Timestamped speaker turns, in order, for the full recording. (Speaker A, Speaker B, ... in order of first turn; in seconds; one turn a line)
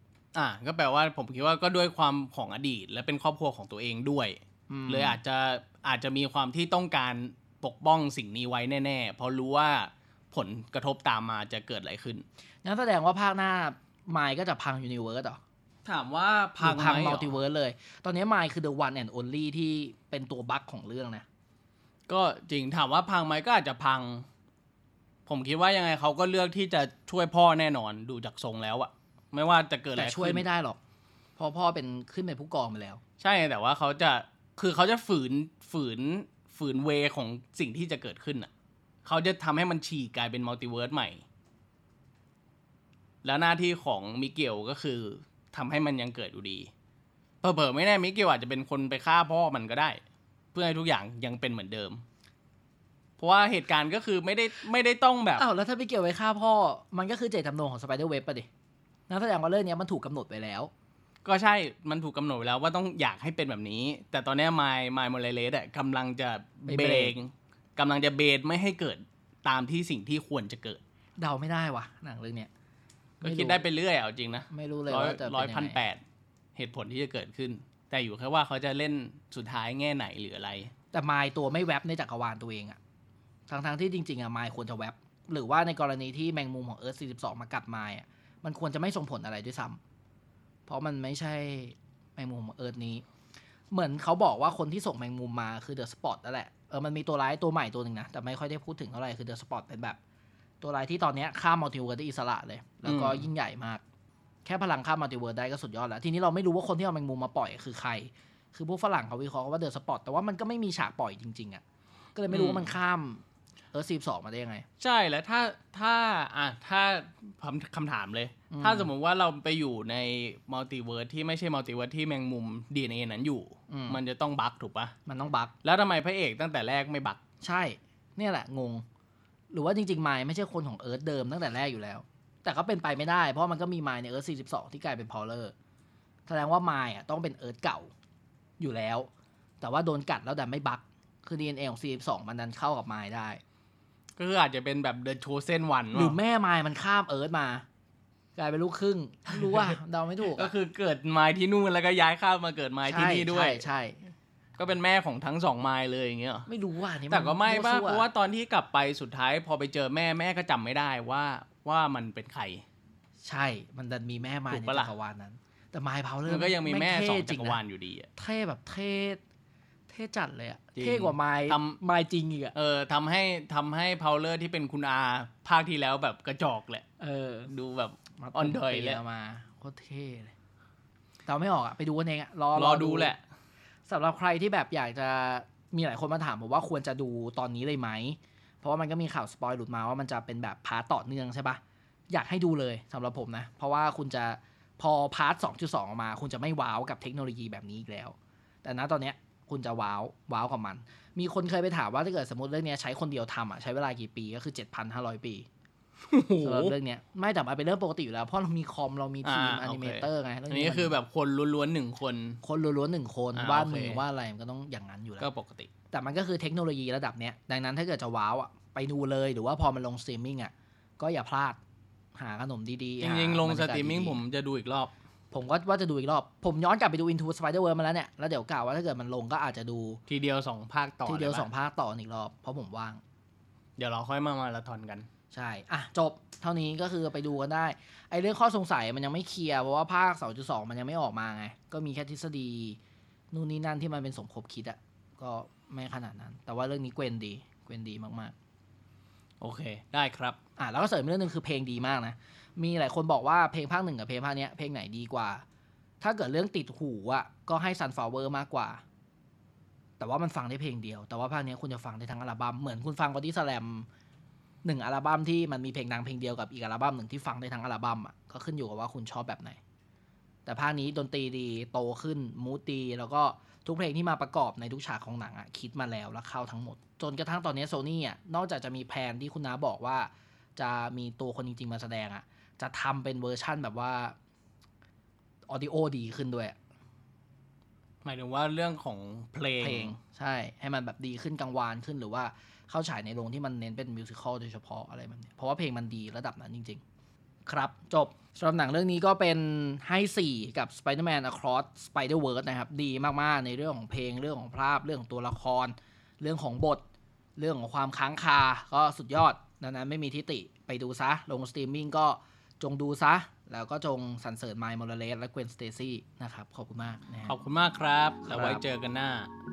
Speaker A: 0.3-12.2
Speaker B: 4.7-5.2
Speaker B: 12.6-15.4
Speaker A: 15.8-17.3
Speaker B: 16.6-21.2
Speaker A: 22.1-24.3
Speaker A: 25.2-30.4
Speaker B: 29.9-30.8
Speaker B: 31.4-33.0
Speaker A: 33.2-38.5
Speaker A: 39.0-41.2
Speaker A: 43.2-46.7
Speaker A: 47.4-50.0
Speaker A: 50.5-52.0
Speaker A: 53.2-55.4
Speaker B: 55.4-58.5
Speaker B: 59.1-60.7
Speaker A: 61.2-70.8
Speaker B: 66.7-67.1
Speaker B: 71.2-72.5
Speaker A: 73.2-76.0
Speaker B: 73.2-73.6
Speaker B: 74.5-75.8
Speaker A: 76.5-80.7
Speaker B: 80.9-82.8
Speaker B: 83.5-89.8
Speaker B: 90.7-93.0
Speaker B: 93.7-100.0
Speaker B: 100.6-103.8
Speaker A: 102.8-103.3
Speaker B: 104.4-111.6
Speaker B: 112.1-114.7
Speaker A: 112.3-112.7
Speaker A: 114.8-124.9
Speaker B: 118.5-118.9
Speaker B: 123.7-124.0
Speaker B: 125.0-125.5
Speaker A: 125.6-127.2
Speaker B: 127.4-128.8
Speaker B: 129.5-135.5
Speaker B: 136.3-137.9
Speaker B: 138.6-139.1
Speaker B: 139.6-143.4
Speaker A: 144.2-146.2
Speaker B: 145.9-147.6
Speaker B: 148.3-150.5
Speaker A: 150.3-153.7
Speaker B: 152.8-154.0
Speaker A: 154.6-156.5
Speaker B: 156.5-158.1
Speaker A: 157.1-162.6
Speaker B: 163.2-167.6
Speaker A: 164.5-164.9
Speaker A: 166.2-168.1
Speaker B: 168.2-169.2
Speaker B: 169.9-172.5
Speaker A: 170.8-171.8
Speaker A: 172.5-176.8
Speaker B: 177.0-177.5
Speaker A: 177.5-179.0
Speaker B: 178.2-180.3
Speaker B: 181.2-183.1
Speaker A: 182.5-183.2
Speaker B: 183.9-205.5
Speaker A: 206.0-206.8
Speaker B: 206.4-211.0
Speaker A: 209.2-212.4
Speaker B: 212.4-215.3
Speaker A: 213.3-214.0
Speaker A: 215.2-215.7
Speaker B: 215.9-221.6
Speaker B: 222.1-224.2
Speaker A: 223.0-224.9
Speaker B: 225.3-230.0
Speaker A: 230.1-231.5
Speaker B: 231.1-233.0
Speaker A: 233.8-235.1
Speaker B: 235.3-242.8
Speaker B: 243.3-248.3
Speaker A: 249.4-250.4
Speaker B: 250.6-255.4
Speaker B: 256.0-258.8
Speaker B: 260.0-263.9
Speaker B: 264.6-269.6
Speaker B: 270.4-284.1
Speaker B: 285.5-286.6
Speaker A: 288.0-289.9
Speaker B: 289.6-296.8
Speaker B: 297.4-306.8
Speaker B: 307.4-317.3
Speaker A: 317.3-319.3
Speaker B: 318.3-318.6